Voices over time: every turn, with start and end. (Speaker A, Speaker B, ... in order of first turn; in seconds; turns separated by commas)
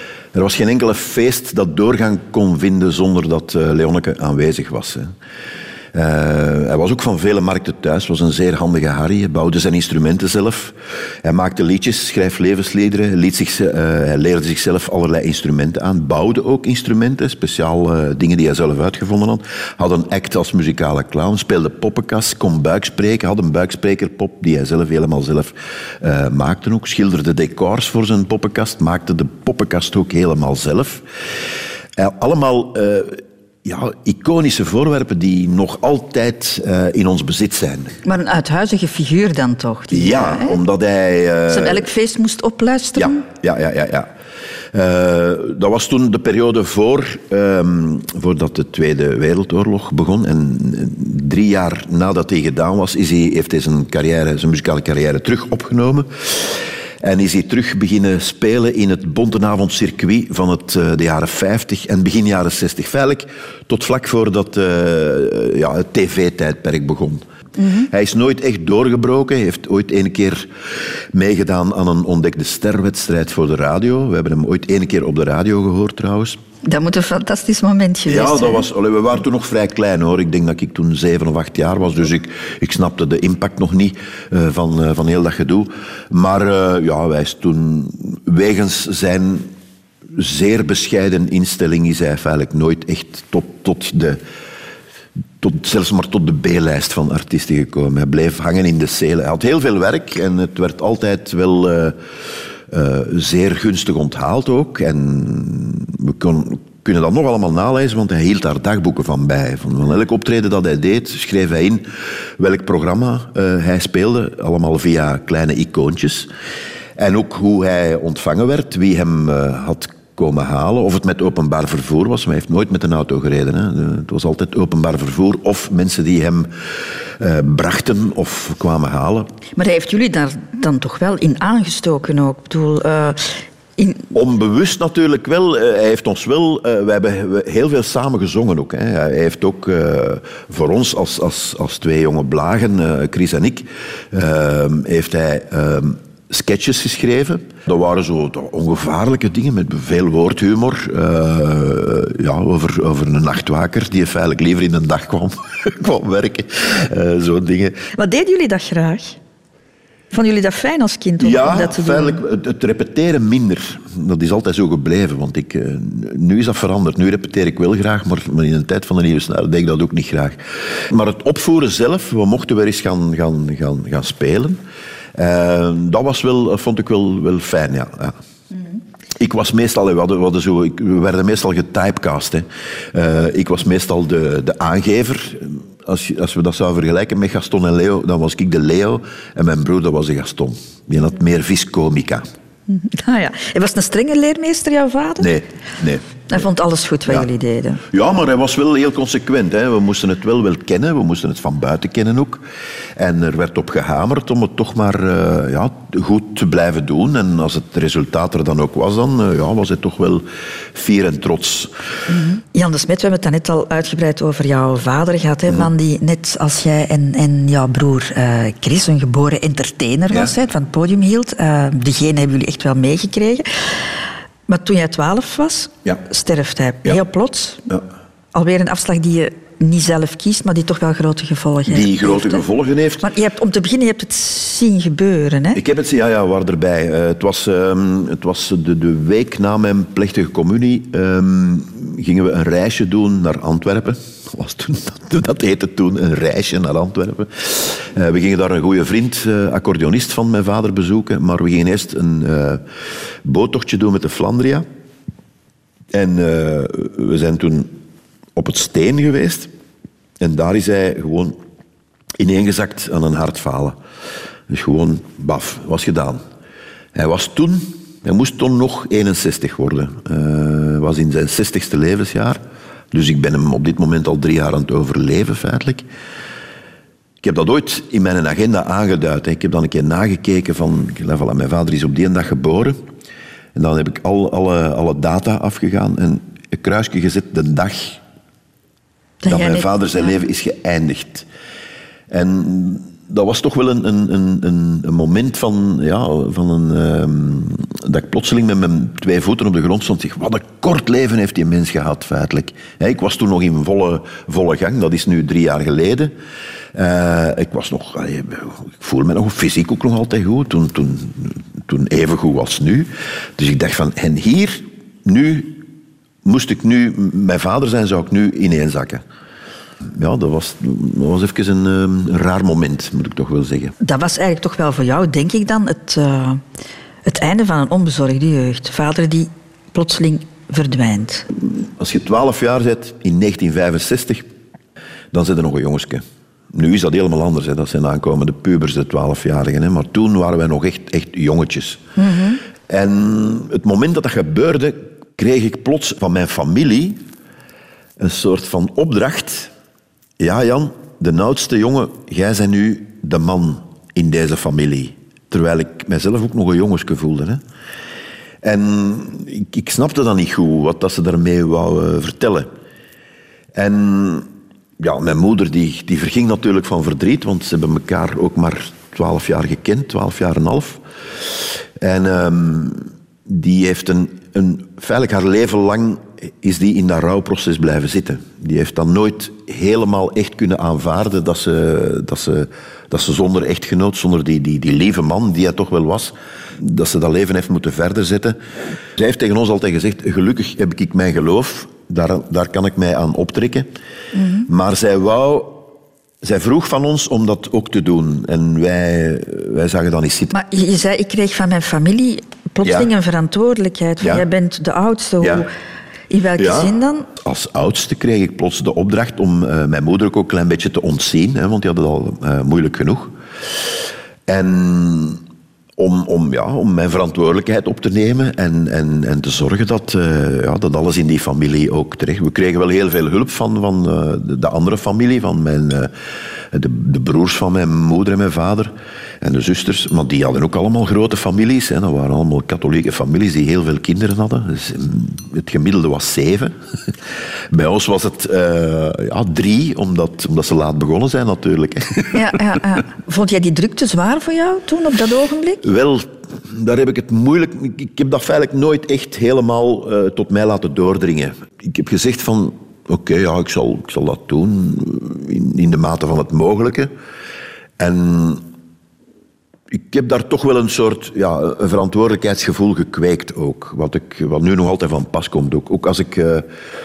Speaker A: 0.3-5.1, Speaker A: 5.9-37.9, Speaker B: 38.0-40.6, Speaker A: 39.9-41.9, Speaker B: 41.5-43.2, Speaker A: 43.0-44.1, Speaker A: 44.7-67.2, Speaker B: 67.6-67.9, Speaker A: 67.9-70.5, Speaker A: 71.1-76.4, Speaker B: 76.6-78.7, Speaker A: 78.1-89.5, Speaker A: 90.1-94.2, Speaker A: 95.4-102.0, Speaker A: 102.7-111.8, Speaker A: 112.4-116.3, Speaker A: 117.0-129.3, Speaker B: 129.6-134.1, Speaker A: 134.1-157.8, Speaker B: 157.9-159.2, Speaker B: 160.1-162.2, Speaker A: 161.2-174.6, Speaker A: 175.1-178.2, Speaker A: 179.2-192.2, Speaker B: 192.7-195.3, Speaker A: 195.2-196.1, Speaker B: 196.3-197.8, Speaker A: 197.9-202.4, Speaker A: 202.9-211.7, Speaker B: 212.1-223.5, Speaker B: 224.5-227.6, Speaker B: 228.3-232.4, Speaker A: 231.7-233.1, Speaker B: 233.0-235.6, Speaker A: 235.5-252.6, Speaker A: 253.2-254.6, Speaker A: 255.9-257.7, Speaker A: 258.3-259.5, Speaker A: 260.2-261.4, Speaker A: 262.2-263.8, Speaker A: 264.5-266.2, Speaker A: 266.9-272.4, Speaker A: 272.9-275.8, Speaker A: 277.2-282.8, Speaker A: 283.5-288.0, Speaker B: 289.2-289.7, Speaker A: 289.2-291.2, Speaker A: 292.1-306.1, Speaker A: 306.7-315.6, Speaker A: 316.2-319.0, Speaker A: 319.9-323.7, Speaker B: 323.8-326.4, Speaker B: 327.0-331.2, Speaker A: 331.4-334.3, Speaker A: 335.1-341.8, Speaker B: 342.0-342.4, Speaker A: 342.7-347.0, Speaker A: 348.0-349.5, Speaker A: 350.2-357.4, Speaker A: 358.4-362.5, Speaker A: 363.5-364.3, Speaker A: 364.8-388.4, Speaker A: 388.9-393.7, Speaker B: 394.1-394.5, Speaker A: 394.5-395.6, Speaker A: 396.2-400.3, Speaker B: 400.3-405.5, Speaker A: 402.6-402.9, Speaker A: 405.2-405.4, Speaker B: 406.1-407.1, Speaker A: 406.4-413.1, Speaker A: 414.3-415.2, Speaker A: 415.8-425.9, Speaker A: 426.5-436.5, Speaker A: 437.5-442.4, Speaker B: 442.1-445.6, Speaker A: 445.6-456.9, Speaker A: 457.8-458.4, Speaker A: 459.7-466.4